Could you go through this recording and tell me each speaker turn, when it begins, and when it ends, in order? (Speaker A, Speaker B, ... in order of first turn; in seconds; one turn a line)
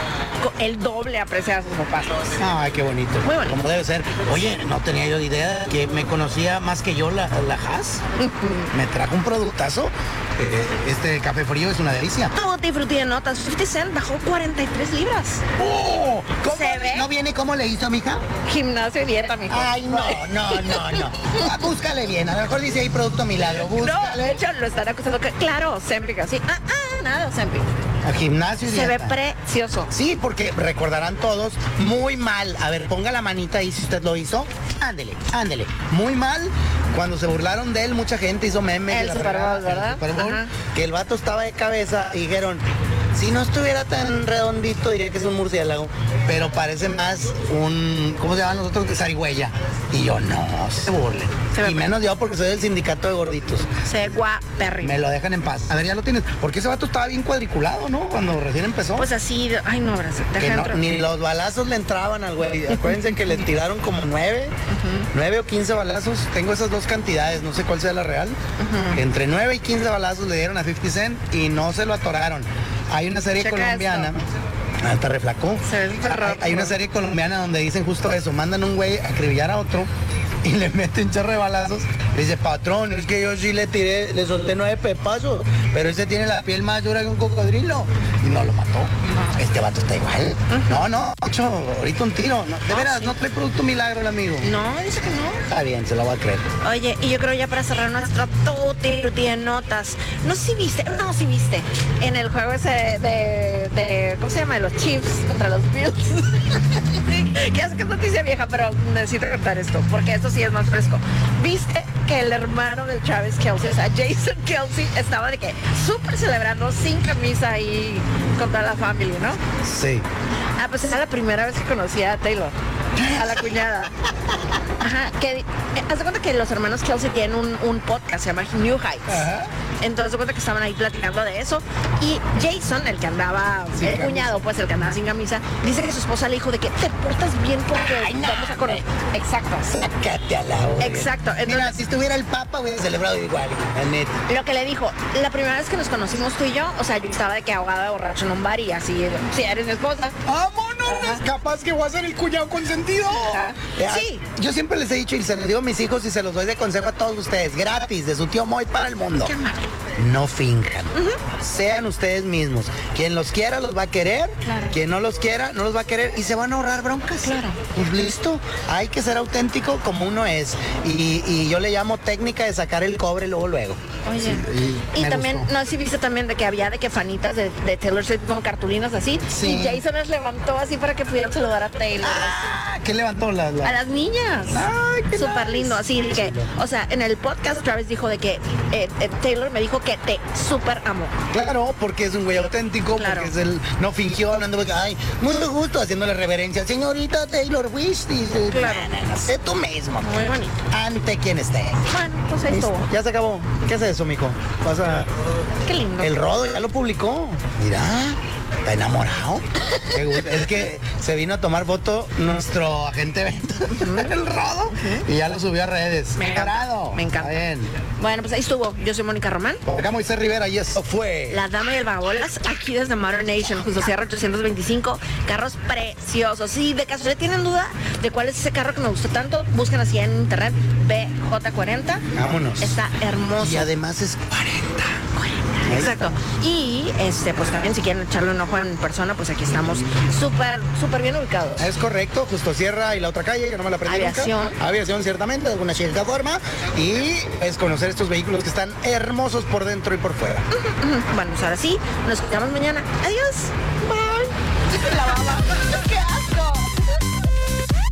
Speaker A: 0.4-2.3
Speaker B: 2.4-8.0
Speaker A: 3.2-3.6
Speaker A: 8.2-8.7
Speaker B: 8.7-12.3
Speaker A: 12.3-15.4
Speaker B: 15.6-18.2
Speaker A: 16.4-17.1
Speaker A: 18.4-21.4
Speaker B: 19.5-24.4
Speaker A: 23.6-27.7
Speaker B: 28.0-29.2
Speaker A: 28.6-29.9
Speaker B: 29.9-42.6
Speaker A: 38.9-40.5
Speaker B: 43.1-53.7
Speaker A: 51.5-51.9
Speaker A: 53.8-55.0
Speaker B: 54.8-59.1
Speaker A: 59.0-60.8
Speaker B: 60.4-64.5
Speaker A: 64.7-65.1
Speaker B: 65.1-68.4
Speaker A: 68.6-69.0
Speaker B: 68.9-74.2
Speaker A: 73.3-74.1
Speaker B: 74.8-79.9
Speaker A: 75.6-76.8
Speaker B: 80.4-94.5
Speaker A: 89.1-89.4
Speaker A: 90.5-90.8
Speaker A: 92.7-93.2
Speaker A: 94.4-95.4
Speaker B: 95.5-96.5
Speaker A: 96.6-119.4
Speaker B: 119.6-120.0
Speaker A: 120.6-123.9
Speaker B: 123.0-123.3
Speaker A: 124.8-129.3
Speaker B: 129.1-129.5
Speaker A: 129.8-139.7
Speaker B: 133.8-134.4
Speaker B: 137.8-138.8
Speaker B: 139.7-144.2
Speaker A: 140.8-141.7
Speaker A: 144.3-150.2
Speaker B: 150.2-159.3
Speaker A: 150.8-151.2
Speaker A: 153.1-154.2
Speaker A: 159.2-159.7
Speaker B: 159.9-175.5
Speaker A: 160.9-161.2
Speaker A: 164.4-164.7
Speaker A: 167.2-167.6
Speaker A: 174.0-182.5
Speaker B: 179.3-179.8
Speaker B: 182.0-183.8
Speaker A: 183.6-191.1
Speaker B: 184.5-186.5
Speaker B: 191.3-200.2
Speaker A: 192.9-193.3
Speaker A: 198.5-198.9
Speaker A: 200.0-200.6
Speaker B: 200.7-201.9
Speaker A: 201.9-202.9
Speaker B: 202.5-205.1
Speaker A: 205.6-206.2
Speaker B: 206.0-217.7
Speaker A: 213.7-214.1
Speaker A: 214.7-215.1
Speaker A: 216.2-217.4
Speaker A: 218.0-219.6
Speaker B: 219.7-221.4
Speaker A: 221.3-232.0
Speaker B: 232.1-232.8
Speaker A: 232.6-233.7
Speaker B: 233.4-235.0
Speaker A: 235.1-241.6
Speaker B: 235.7-236.1
Speaker B: 241.6-250.5
Speaker A: 243.8-244.6
Speaker A: 250.5-256.9